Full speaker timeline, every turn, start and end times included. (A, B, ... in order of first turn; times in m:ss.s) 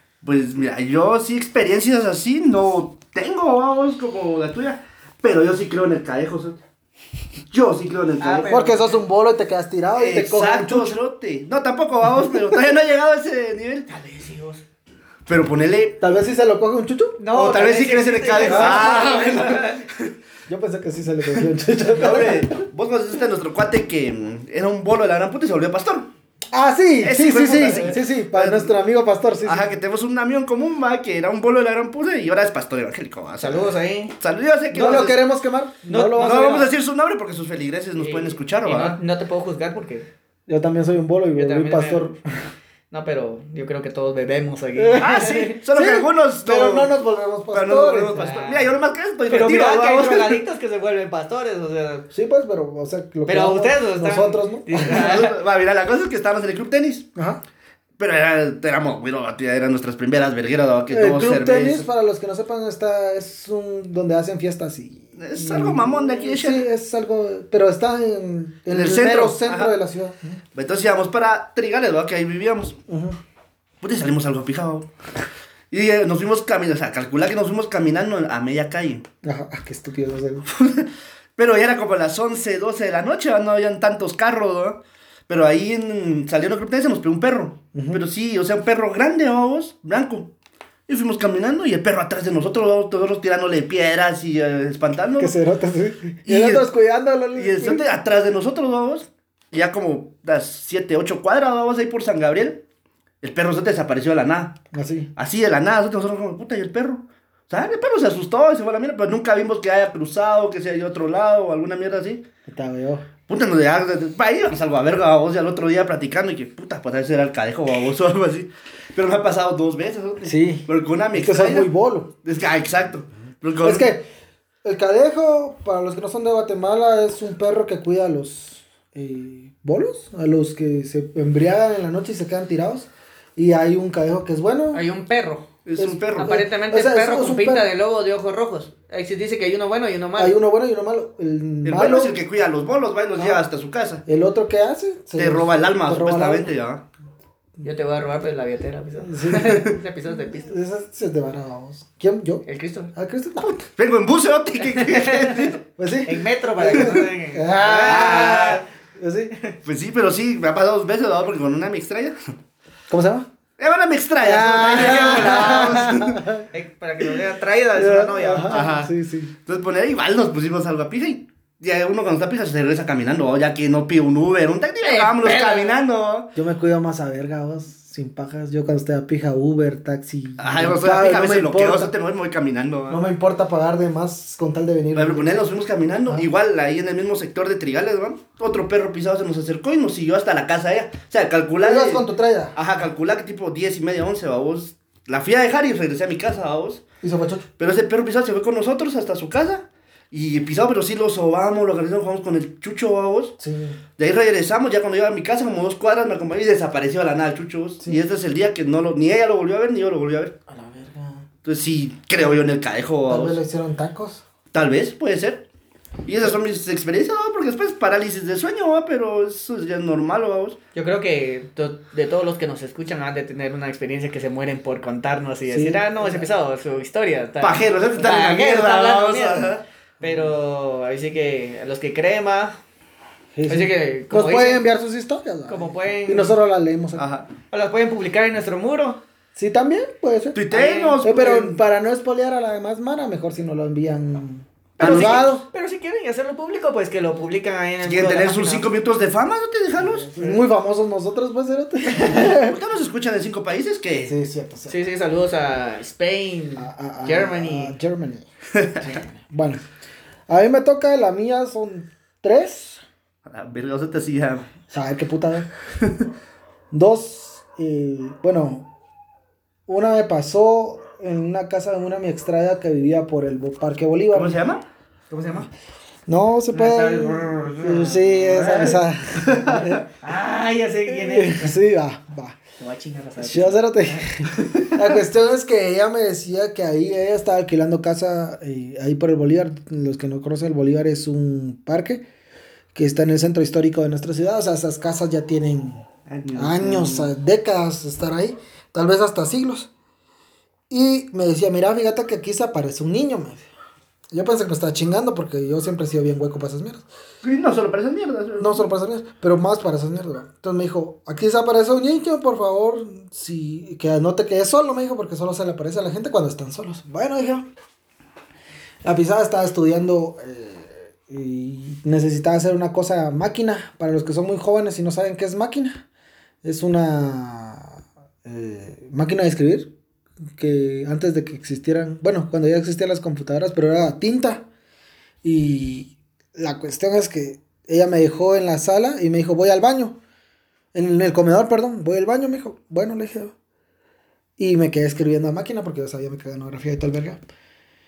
0:00.2-0:06.6 A
0:07.5-0:08.5 A
0:08.2-0:09.0 B
0:08.4-0:11.0 C
0:10.0-0:13.9 A
0:13.9-0:14.6 B
0:15.3-0:16.0 A
0:16.0-0:17.6 C
0:17.2-0:19.8 B
0:17.3-0:20.1 A
0:18.4-0:19.3 C
0:20.5-0:22.5 C
0:21.9-0:26.1 A
0:26.5-0:29.7 C
0:27.0-0:28.7 A
0:29.4-0:35.2 A
0:33.4-0:34.2 B
0:34.7-0:36.7 C
0:34.7-0:35.1 B
0:35.9-0:36.7 B
0:36.2-0:39.0 A
0:38.0-0:40.1 B
0:40.5-0:42.2 C
0:41.3-0:42.1 B
0:42.9-0:45.6 B
0:44.8-0:48.3 C
0:45.0-0:46.9 A
0:47.5-0:50.4 A
0:48.1-0:48.8 B
0:49.3-0:52.1 B
0:52.1-0:55.2 C
0:53.3-0:55.3 B
0:54.8-0:57.1 A
0:57.2-0:57.4 C
0:58.0-1:01.8 A
1:00.9-1:10.4 C
1:05.2-1:06.7 A
1:08.7-1:09.6 A
1:10.5-1:12.8 A
1:12.9-1:13.2 C
1:13.8-1:14.9 A
1:15.7-1:19.0 A
1:19.2-1:20.4 C
1:20.5-1:30.3 A
1:27.7-1:28.0 C
1:30.9-1:35.3 A
1:35.2-1:37.8 C
1:36.2-1:36.7 A
1:37.4-1:42.6 A
1:43.2-1:44.6 A
1:44.7-1:45.1 C
1:45.2-1:52.2 A
1:52.5-1:53.1 C
1:53.3-2:01.7 A
2:00.2-2:02.1 C
2:02.2-2:03.9 A
2:03.6-2:04.0 C
2:04.6-2:14.8 C
2:14.7-2:15.5 B
2:15.6-2:16.4 A
2:15.8-2:17.7 C
2:16.2-2:20.3 B
2:20.2-2:22.2 C
2:21.6-2:24.0 A
2:24.0-2:26.5 C
2:25.2-2:26.8 A
2:27.6-2:30.5 B
2:29.0-2:33.6 C
2:29.4-2:29.7 A
2:32.4-2:32.9 B
2:33.5-2:35.6 A
2:34.7-2:35.5 B
2:35.8-2:39.3 C
2:36.0-2:38.6 B
2:37.8-2:38.6 A
2:39.6-2:42.3 A
2:42.9-2:43.3 C
2:43.6-2:46.2 A
2:44.2-2:46.5 C
2:44.7-2:45.9 B
2:46.5-2:48.6 B
2:47.8-2:49.3 C
2:48.5-2:48.9 A
2:49.4-2:56.3 A
2:54.8-2:55.8 B
2:56.3-3:01.9 C
3:00.4-3:03.0 A
3:02.9-3:05.4 C
3:04.9-3:16.8 A
3:11.6-3:12.5 C
3:17.0-3:17.4 C
3:17.6-3:23.3 A
3:23.4-3:23.8 C
3:24.0-3:30.4 A
3:30.5-3:31.2 C
3:31.4-3:33.4 A
3:33.1-3:34.2 C
3:34.5-3:35.4 A
3:36.0-3:40.6 A
3:40.7-3:52.6 B
3:45.5-3:46.3 C
3:47.4-3:49.6 A
3:53.4-3:57.0 C
3:53.5-3:54.6 B
3:55.5-3:56.4 B
3:57.0-3:57.3 A
3:57.5-3:59.0 B
3:59.4-4:00.4 C
4:00.3-4:01.6 A
4:00.5-4:01.0 B
4:01.0-4:05.4 C
4:04.8-4:05.3 A
4:04.8-4:08.7 B
4:07.8-4:10.1 A
4:09.8-4:12.6 C
4:12.3-4:14.1 A
4:14.0-4:14.7 C
4:14.7-4:17.8 B
4:16.6-4:18.3 C
4:18.8-4:19.6 C
4:20.3-4:22.8 C
4:23.2-4:24.4 A
4:24.7-4:25.5 C
4:26.7-4:28.7 C
4:29.7-4:34.4 C
4:34.1-4:34.6 A
4:35.1-4:35.5 B
4:36.1-4:39.8 C
4:36.5-4:38.8 B
4:39.1-4:39.8 A
4:40.0-4:41.6 B
4:40.9-4:42.4 C
4:42.6-4:44.1 B
4:43.2-4:52.0 C
4:52.7-4:59.7 C
4:56.1-4:57.1 A
5:00.7-5:03.4 C
5:04.1-5:06.8 C
5:07.2-5:08.7 A
5:08.4-5:17.4 C
5:18.8-5:25.8 C
5:26.4-5:29.7 C
5:30.4-5:34.4 C
5:35.2-5:40.0 C
5:40.7-5:43.3 C
5:44.4-5:47.2 C